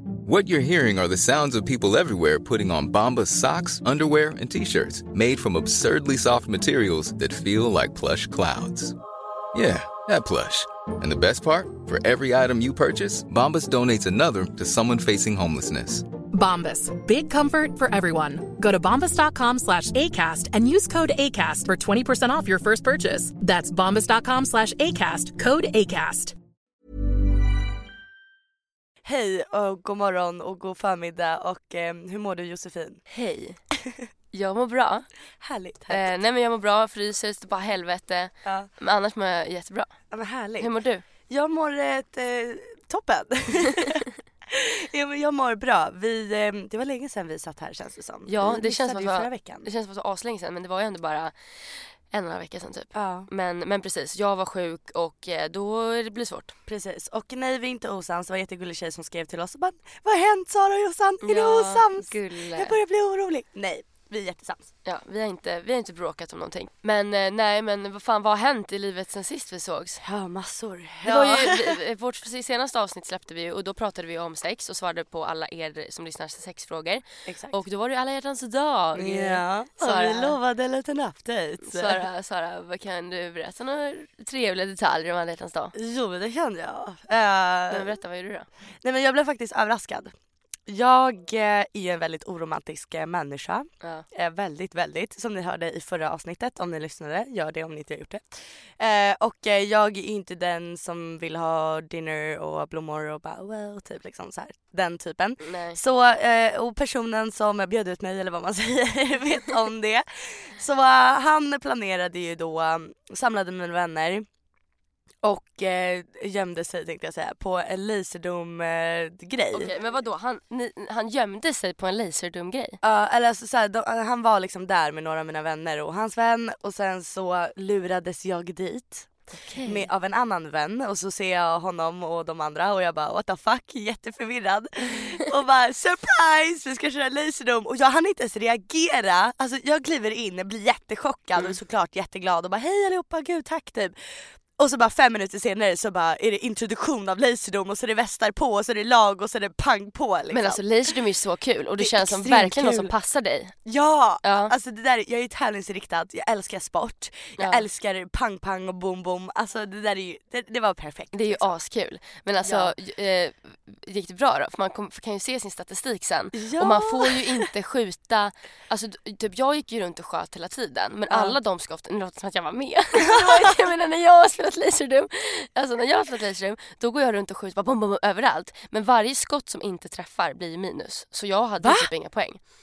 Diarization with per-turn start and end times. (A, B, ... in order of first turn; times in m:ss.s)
0:00.2-0:08.9 A
0:09.5-0:16.1 A
0:16.3-0:26.3 B
0:29.0-0:33.0 C
0:33.1-0:33.6 D
0:33.8-0:34.1 C
0:34.3-0:35.1 D
0:35.4-0:36.1 C
0:35.9-0:40.0 D
0:40.1-0:40.7 C
0:40.6-0:41.0 D
0:41.3-0:49.7 C
0:48.3-0:56.5 D
0:52.9-0:53.3 C
0:56.7-1:04.7 C
1:01.2-1:02.8 D
1:04.8-1:10.0 D
1:10.0-1:11.8 C
1:11.0-1:20.4 D
1:17.3-1:17.6 C
1:18.9-1:22.0 C
1:21.6-1:25.7 D
1:25.7-1:28.0 C
1:27.7-1:28.5 D
1:28.8-1:30.1 C
1:30.7-1:54.3 C
1:45.4-1:45.8 D
1:55.2-1:59.7 C
1:59.5-2:02.8 D
2:02.8-2:30.6 C
2:09.5-2:09.9 D
2:30.3-2:33.6 D
2:31.8-2:32.9 C
2:33.6-2:41.5 C
2:34.2-2:34.5 D
2:37.4-2:37.6 D
2:41.1-3:02.4 D
2:42.4-2:42.7 C
2:46.3-2:47.5 C
2:51.1-2:51.4 C
2:53.0-2:53.5 C
3:01.6-3:01.9 C